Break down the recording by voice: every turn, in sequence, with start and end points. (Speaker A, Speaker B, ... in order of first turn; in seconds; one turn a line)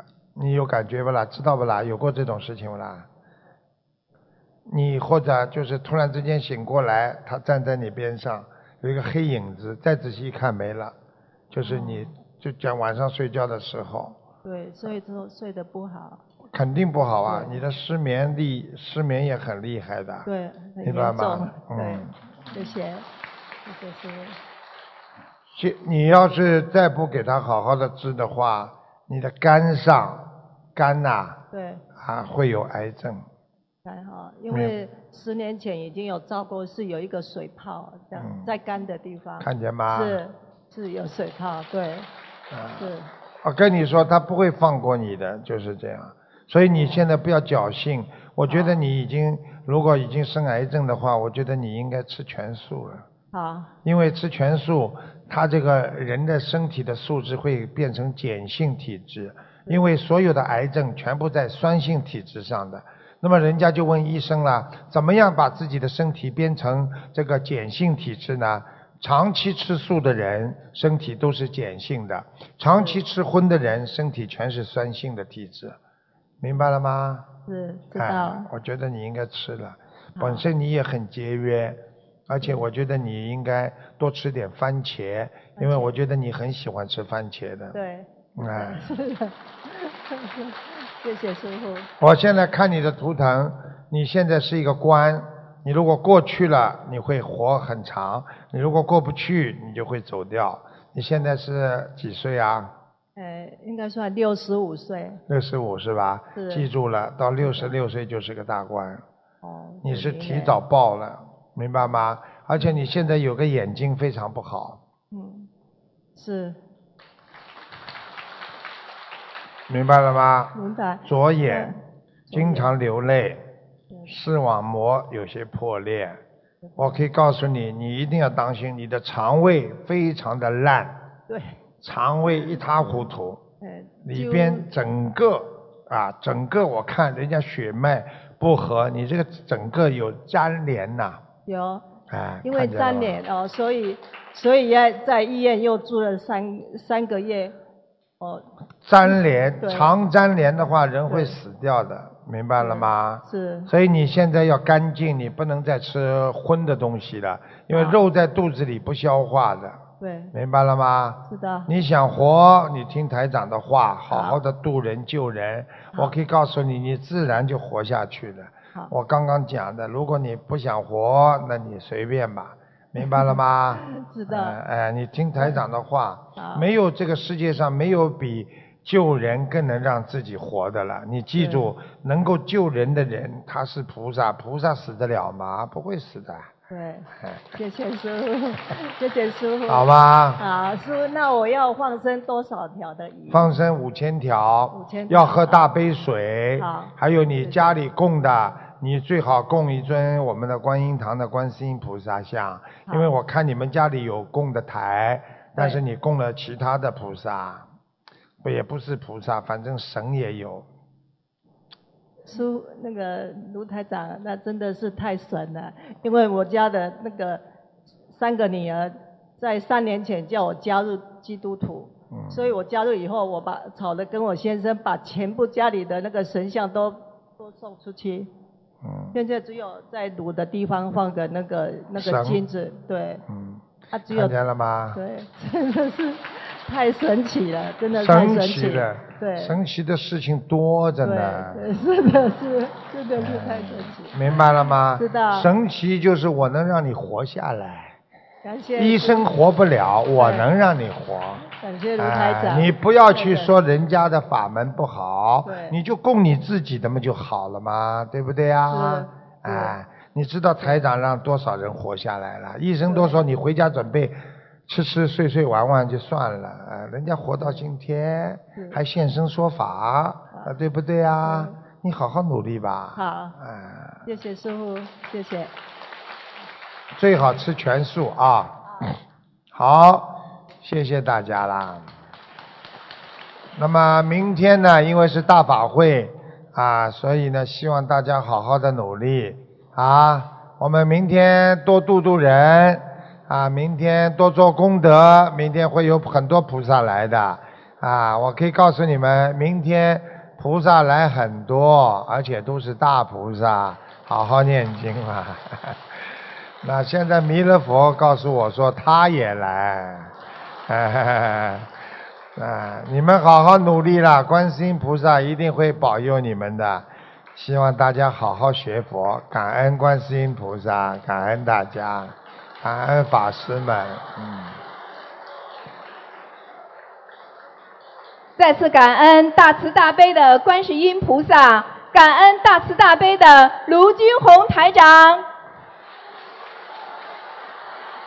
Speaker A: 0.3-3.1
Speaker A: 4.7-10.9
Speaker A: 11.5-14.2
Speaker B: 11.6-12.1
Speaker B: 14.4-16.2
Speaker A: 16.5-20.3
Speaker B: 17.2-17.6
Speaker B: 20.2-23.1
Speaker A: 20.8-22.1
Speaker B: 23.6-24.4
Speaker A: 25.5-31.4
Speaker B: 31.5-31.8
Speaker A: 32.0-33.2
Speaker B: 33.8-42.1
Speaker A: 34.5-34.7
Speaker A: 38.1-38.5
Speaker A: 39.4-40.2
Speaker A: 42.5-42.9
Speaker B: 42.8-43.1
Speaker A: 43.4-53.1
Speaker B: 48.5-48.8
Speaker B: 53.3-53.7
Speaker A: 53.8-75.8
Speaker B: 72.6-73.0
Speaker A: 76.4-77.3
Speaker B: 77.5-78.5
Speaker A: 78.0-87.8
Speaker B: 80.2-80.5
Speaker B: 85.6-85.9
Speaker B: 87.7-91.9
Speaker A: 88.3-88.9
Speaker A: 92.0-102.7
Speaker B: 103.2-105.2
Speaker A: 105.3-109.0
Speaker B: 106.3-106.7
Speaker B: 107.4-107.7
Speaker B: 109.4-110.6
Speaker A: 109.8-114.8
Speaker B: 115.1-115.5
Speaker B: 116.1-116.6
Speaker A: 119.7-121.8
Speaker B: 120.5-121.8
Speaker B: 122.3-122.7
Speaker A: 122.3-123.4
Speaker A: 124.0-126.2
Speaker B: 126.7-127.0
Speaker A: 126.8-131.0
Speaker B: 131.3-131.6
Speaker A: 131.8-133.4
Speaker B: 133.6-134.7
Speaker A: 134.0-141.2
Speaker B: 141.4-141.9
Speaker A: 142.1-143.2
Speaker B: 142.4-147.6
Speaker B: 148.2-148.4
Speaker A: 148.8-159.8
Speaker B: 149.1-149.9
Speaker B: 151.1-151.4
Speaker B: 152.6-153.7
Speaker B: 157.7-158.0
Speaker B: 160.0-160.3
Speaker A: 160.3-186.5
Speaker B: 161.3-161.7
Speaker B: 164.1-164.4
Speaker B: 173.8-174.6
Speaker B: 176.3-176.7
Speaker B: 181.4-181.7
Speaker B: 186.7-193.6
Speaker A: 187.2-187.4
Speaker A: 189.7-190.4
Speaker A: 193.3-207.7
Speaker B: 194.7-195.7
Speaker B: 196.6-197.8
Speaker B: 205.6-205.8
Speaker A: 208.4-210.7
Speaker B: 212.2-217.4
Speaker B: 218.1-228.3
Speaker A: 222.1-222.5
Speaker A: 228.8-229.2
Speaker B: 229.1-233.2
Speaker A: 231.9-232.4
Speaker A: 233.3-235.0
Speaker B: 233.9-234.3
Speaker B: 234.9-239.6
Speaker A: 237.9-241.7
Speaker B: 241.0-244.2
Speaker A: 243.2-248.0
Speaker B: 244.9-245.5
Speaker B: 248.4-249.2
Speaker A: 248.8-274.1
Speaker B: 250.2-250.5
Speaker B: 251.5-253.5
Speaker B: 255.4-255.8
Speaker B: 258.7-259.8
Speaker B: 262.9-263.2
Speaker B: 271.2-271.6
Speaker B: 272.9-273.4
Speaker B: 274.0-275.5
Speaker A: 276.9-278.9
Speaker A: 279.5-281.9
Speaker A: 283.5-306.0
Speaker A: 306.6-310.1
Speaker A: 310.7-311.7
Speaker A: 312.4-324.6
Speaker C: 328.4-335.2